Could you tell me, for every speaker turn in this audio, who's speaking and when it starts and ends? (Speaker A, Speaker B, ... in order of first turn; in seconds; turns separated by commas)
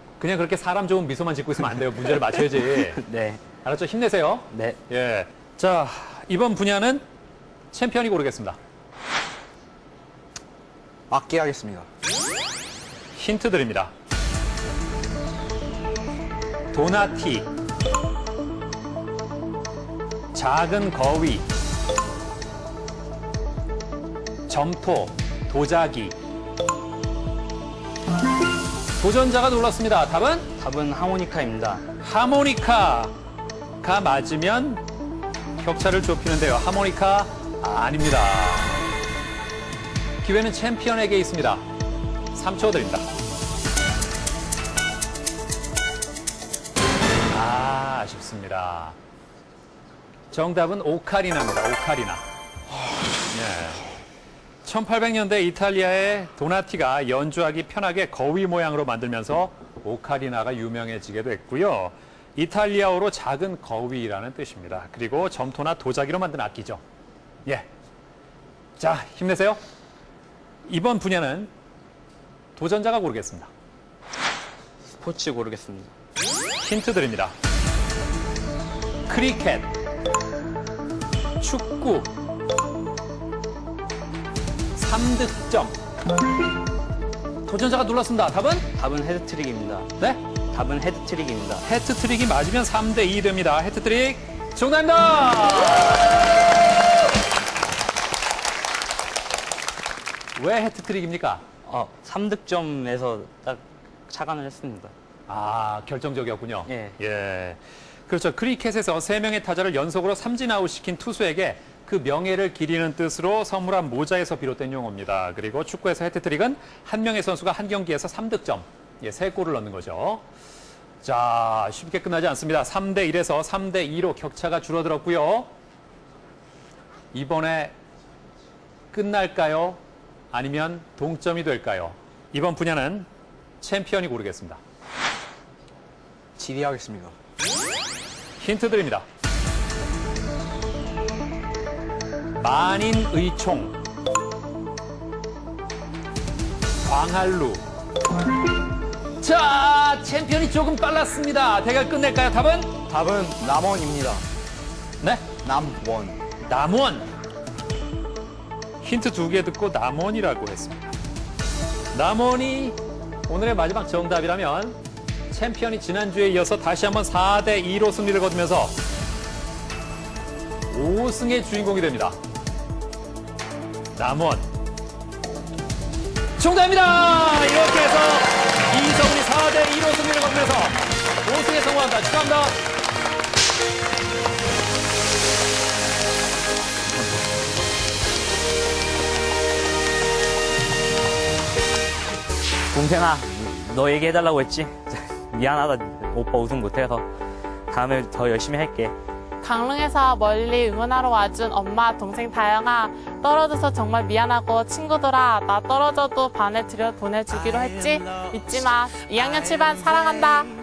Speaker A: 0.2-3.0, Speaker B: 2.2-3.4, Speaker A: 3.6-7.0, Speaker B: 4.5-4.8, Speaker A: 7.7-8.6, Speaker C: 11.1-11.9, Speaker A: 13.1-13.9, Speaker A: 16.7-17.5, Speaker A: 20.3-21.5, Speaker A: 24.5-26.1, Speaker A: 29.0-30.4, Speaker B: 30.6-31.9, Speaker A: 32.0-33.1, Speaker A: 33.8-34.8, Speaker A: 35.6-38.8, Speaker A: 40.2-41.6, Speaker A: 42.3-43.1, Speaker A: 47.3-49.0, Speaker A: 50.3-52.2, Speaker A: 53.3-53.8, Speaker A: 54.6-66.8, Speaker A: 68.8-69.6, Speaker A: 70.7-71.5, Speaker A: 72.5-73.5, Speaker B: 74.9-75.9, Speaker A: 76.6-77.3, Speaker A: 79.1-79.7, Speaker A: 81.4-82.1, Speaker A: 84.8-85.8, Speaker A: 87.5-88.7, Speaker B: 88.7-89.9, Speaker B: 90.5-91.6, Speaker A: 91.6-96.2, Speaker A: 100.3-101.4, Speaker B: 101.6-104.9, Speaker A: 105.3-120.2, Speaker B: 106.7-107.0, Speaker A: 121.0-125.5, Speaker A: 127.1-127.8, Speaker A: 128.9-129.8, Speaker A: 130.3-133.1, Speaker A: 133.6-134.6, Speaker C: 136.4-137.1, Speaker A: 138.4-139.1, Speaker A: 142.4-143.8, Speaker A: 146.8-147.6, Speaker A: 149.2-152.7, Speaker C: 152.9-154.2, Speaker A: 155.0-155.3, Speaker C: 155.4-156.2, Speaker A: 156.4-157.1, Speaker A: 158.8-160.9, Speaker A: 161.9-162.8, Speaker A: 163.3-164.8, Speaker A: 165.3-168.8, Speaker A: 170.7-172.2, Speaker A: 173.9-174.5, Speaker A: 176.4-182.6, Speaker B: 192.7-197.1, Speaker B: 197.7-198.9, Speaker D: 199.4-210.5